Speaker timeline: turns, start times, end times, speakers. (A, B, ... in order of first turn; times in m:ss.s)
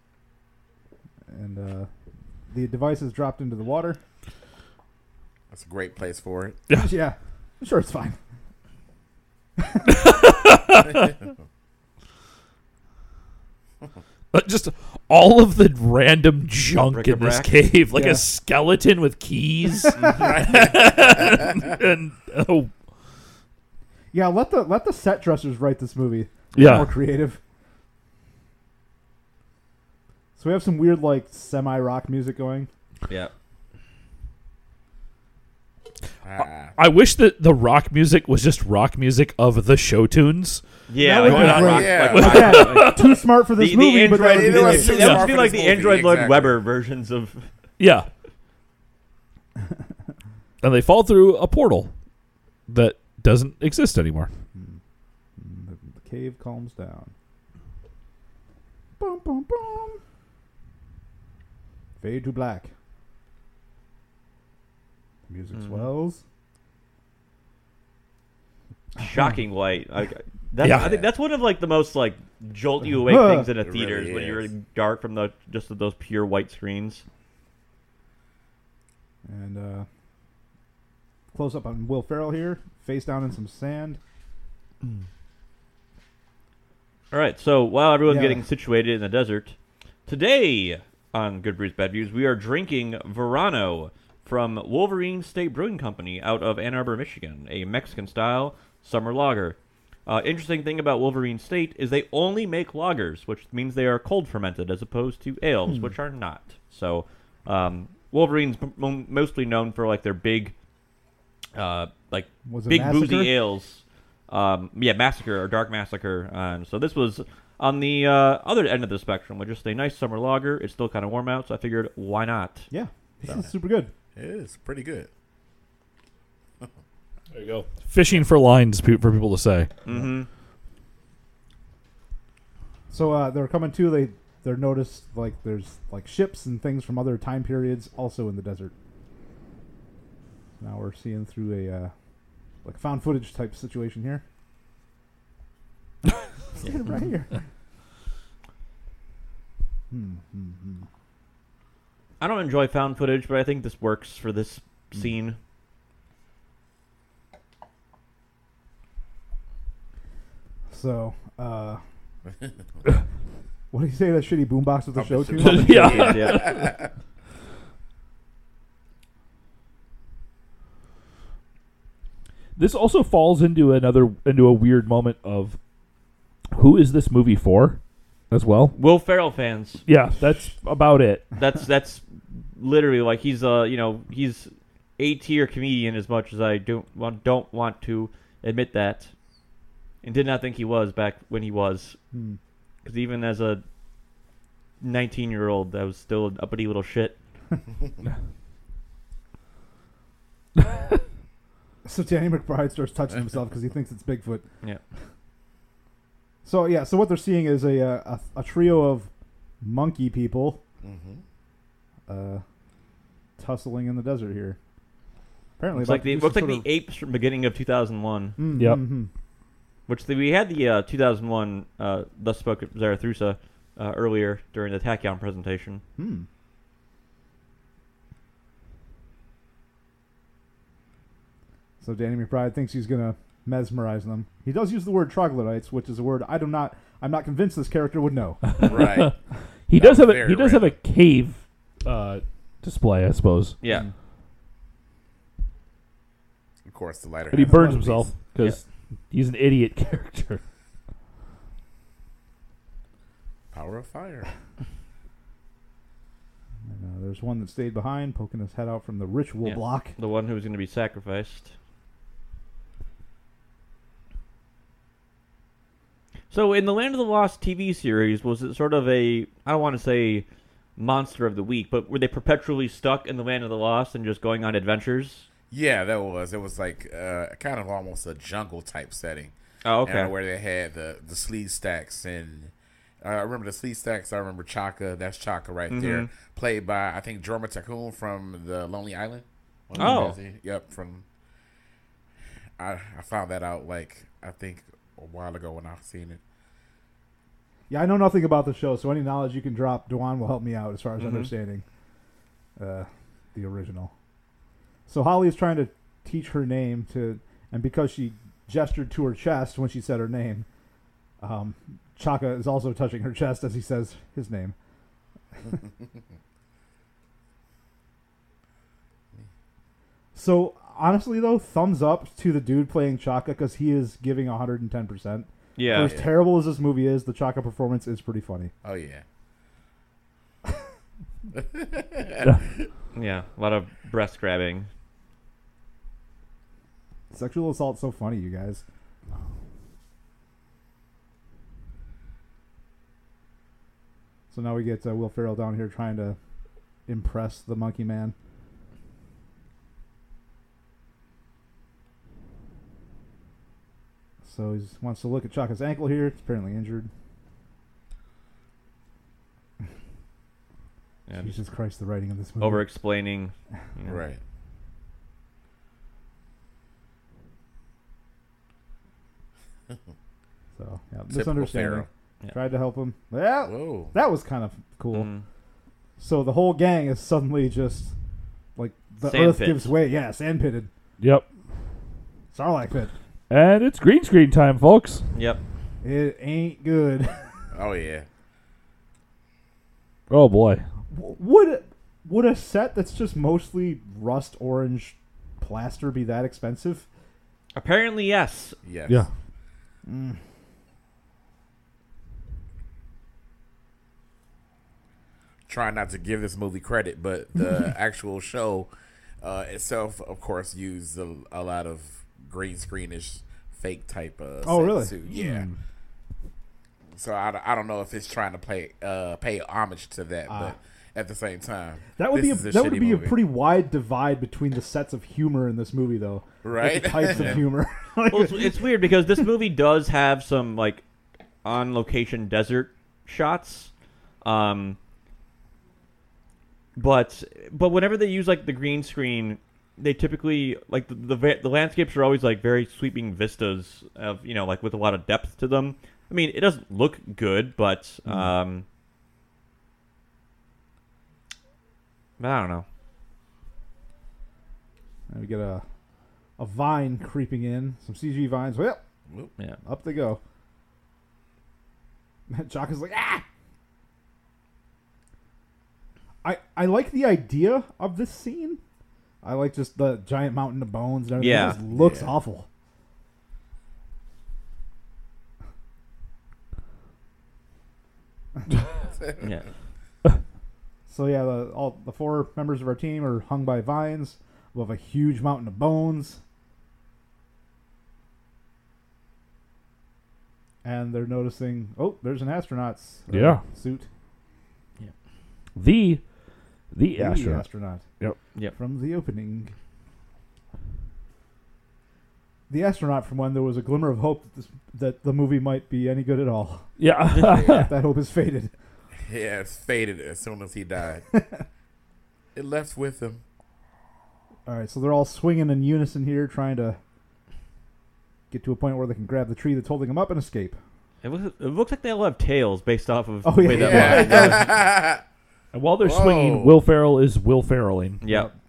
0:01.3-0:01.9 A
0:02.5-0:04.0 A
0:05.5-0:06.6 B
0:06.7-0:08.2 A
0:09.6-0:09.9 A
0:09.8-0:11.1 C
0:14.3-0:22.7 C
0:16.9-0:17.5 D
0:17.9-0:18.2 A
0:19.9-0:20.2 A
0:20.1-0:21.7 B
0:24.1-0:27.4 A
0:26.5-0:26.9 C
0:30.4-0:32.7 A
0:36.2-0:36.7 B
0:36.7-0:40.6 C
0:40.9-0:43.0 D
0:41.0-0:45.3 A
0:41.2-0:43.1 C
0:41.4-0:42.6 B
0:43.6-0:47.5 D
0:44.1-0:46.6 B
0:47.8-0:48.1 C
0:50.6-0:51.9 C
0:52.7-0:54.3 C
0:55.4-0:57.1 A
0:59.0-1:00.0 A
1:02.0-1:02.7 A
1:05.3-1:06.2 A
1:05.5-1:05.9 D
1:09.0-1:17.0 D
1:09.0-1:09.4 A
1:10.6-1:11.0 C
1:13.0-1:13.5 A
1:13.6-1:14.5 B
1:19.2-1:19.9 A
1:21.3-1:24.0 A
1:27.1-1:29.6 D
1:28.0-1:28.4 A
1:30.1-1:50.5 D
1:51.6-2:02.7 D
1:52.4-1:53.3 A
2:02.7-2:03.9 A
2:04.2-2:05.1 B
2:07.3-2:09.7 C
2:09.8-2:10.3 D
2:12.9-2:18.7 A
2:20.6-2:21.9 A
2:22.6-2:24.2 A
2:26.6-2:27.3 A
2:29.9-2:30.8 A
2:32.2-2:35.4 D
2:40.7-2:41.8 A
2:43.7-2:46.2 A
2:44.9-2:46.9 B
2:45.4-2:46.7 C
2:45.7-2:46.5 D
2:52.6-2:55.6 C
2:56.5-2:57.8 C
2:58.3-2:58.7 C
2:58.7-2:59.8 D
2:59.9-3:01.3 C
3:01.4-3:09.1 D
3:10.0-3:12.0 D
3:12.1-3:12.4 A
3:12.8-3:13.6 D
3:14.8-3:17.2 D
3:21.8-3:24.4 A
3:26.4-3:29.1 A
3:29.6-3:30.6 A
3:30.8-3:31.2 B
3:32.1-3:32.4 A
3:33.4-3:34.6 A
3:35.6-3:36.7 A
3:35.7-3:38.4 D
3:38.4-3:39.1 A
3:38.6-3:38.8 C
3:39.9-3:45.8 D
3:46.0-3:46.3 A
3:51.8-3:58.8 A
3:58.5-3:59.1 C
3:58.6-3:59.1 B
3:59.7-4:03.6 C
3:59.7-4:00.7 B
4:03.6-4:03.9 D
4:06.6-4:08.1 B
4:07.3-4:10.4 C
4:07.4-4:07.9 A
4:13.5-4:14.3 B
4:16.7-4:19.9 A
4:19.4-4:21.5 D
4:26.3-4:30.2 D
4:30.8-4:35.3 D
4:35.5-4:39.3 B
4:39.6-4:40.1 D
4:39.8-4:51.0 B
4:45.7-4:46.1 D
4:49.8-4:50.2 D
4:52.6-4:56.2 B
4:57.7-5:01.6 A
5:01.0-5:01.3 D
5:02.6-5:03.9 A
5:04.9-5:10.4 A
5:11.2-5:14.5 A
5:20.1-5:28.5 A
5:25.6-5:26.0 D
5:25.7-5:26.1 B
5:28.6-5:29.0 B
5:31.3-5:32.6 B
5:32.9-5:34.7 D
5:37.1-5:38.6 A
5:44.3-5:46.2 A
5:46.9-5:48.1 A
5:54.2-5:56.9 A
6:01.1-6:01.4 D
6:01.2-6:02.6 A
6:02.4-6:04.0 D
6:03.8-6:04.2 B
6:10.6-6:15.1 A
6:11.1-6:11.9 B
6:13.4-6:13.9 B
6:14.9-6:15.2 D
6:16.0-6:17.9 A
6:18.6-6:20.7 A
6:19.0-6:19.7 D
6:21.0-6:21.2 C
6:22.3-6:22.9 A
6:23.3-6:25.0 C
6:25.1-6:25.4 D
6:25.8-6:27.1 A
6:27.5-6:28.0 B
6:30.1-6:30.6 C
6:30.9-6:36.8 A
6:37.5-6:38.6 D
6:38.6-6:39.0 B
6:39.8-6:40.2 A
6:45.5-6:48.7 B
6:49.2-6:55.5 B
6:54.4-6:55.6 A
6:56.9-7:03.2 B
7:00.3-7:00.6 A
7:02.0-7:09.2 A
7:06.4-7:07.4 B
7:07.1-7:07.4 D
7:08.1-7:10.8 D
7:11.4-7:13.7 D
7:14.2-7:14.8 D
7:16.8-7:28.6 D
7:32.2-7:32.6 D
7:35.1-7:35.6 A
7:36.4-7:38.8 A
7:39.6-7:40.2 A
7:42.3-7:43.2 A
7:46.2-7:48.6 A
7:49.2-7:52.5 A
7:51.2-7:51.6 D
7:51.7-7:52.1 B
7:59.0-7:59.2 B
7:59.2-7:59.4 D
8:00.9-8:06.2 A
8:10.6-8:13.9 A
8:13.1-8:13.4 C
8:15.6-8:16.0 C
8:16.7-8:17.4 C
8:17.0-8:17.8 A
8:18.5-8:19.5 A
8:22.5-8:26.7 A
8:26.8-8:27.7 C
8:27.1-8:27.4 D
8:27.3-8:27.7 B
8:27.4-8:28.5 A
8:29.0-8:31.0 B
8:31.1-8:31.4 A
8:32.3-8:33.2 B
8:34.4-8:36.8 A
8:38.3-8:40.6 A
8:41.0-8:44.5 D
8:43.2-8:44.5 A
8:43.5-8:45.0 B
8:45.5-8:48.0 C
8:45.8-8:46.6 B
8:48.0-8:48.3 D
8:48.1-8:48.3 A